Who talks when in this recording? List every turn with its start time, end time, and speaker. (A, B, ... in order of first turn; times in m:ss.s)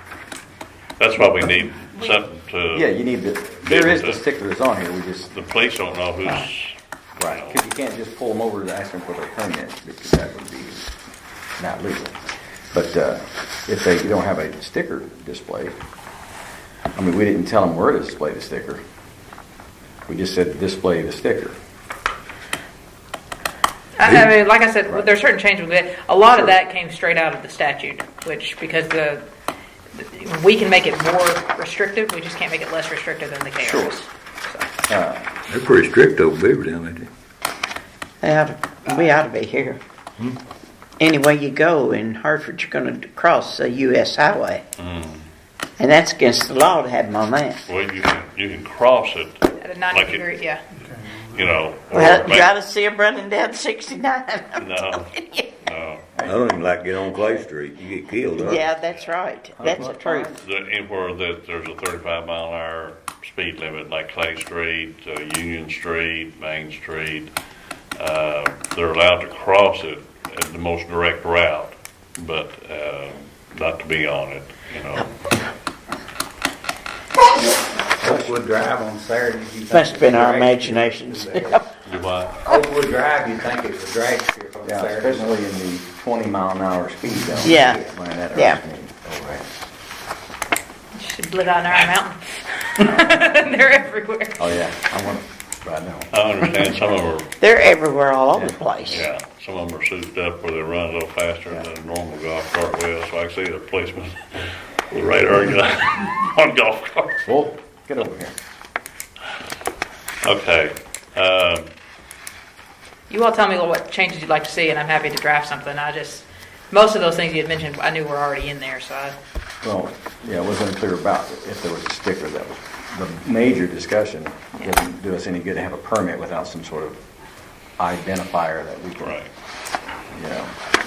0:01.0-0:02.9 A
0:02.7-0:05.3 B
0:03.6-0:04.2 A
0:05.3-0:07.6 A
0:07.2-0:10.8 B
0:11.6-0:12.2 B
0:12.7-0:15.8 B
0:16.9-0:18.8 B
0:20.1-0:21.6 B
0:24.0-0:29.2 C
0:26.3-0:26.6 B
0:29.9-0:34.7 C
0:33.6-0:34.0 B
0:34.9-0:35.3 B
0:35.5-0:37.1 D
0:38.2-0:39.8 E
0:41.0-0:44.6 E
0:44.8-0:45.2 A
0:45.8-0:47.6 E
0:47.7-0:50.2 A
0:49.6-0:50.6 C
0:51.2-0:52.5 A
0:51.9-0:55.5 E
0:54.6-0:56.1 A
0:56.2-0:56.6 B
0:56.2-0:58.6 D
0:58.3-1:00.4 E
0:58.9-1:07.3 A
0:59.6-1:00.3 B
1:08.0-1:15.1 A
1:18.0-1:21.6 F
1:19.7-1:21.6 E
1:21.8-1:22.4 A
1:22.4-1:25.4 F
1:24.6-1:29.4 B
1:27.4-1:27.8 E
1:28.3-1:28.6 E
1:30.9-1:34.4 C
1:34.4-1:36.1 B
1:36.1-1:37.3 A
1:37.4-1:39.1 E
1:38.3-1:39.0 B
1:38.9-1:47.2 A
1:47.2-1:48.3 B
1:50.2-1:51.7 A
1:53.1-1:59.1 C
1:59.6-2:07.0 B
2:07.8-2:09.2 B
2:09.0-2:09.3 A
2:10.1-2:10.5 B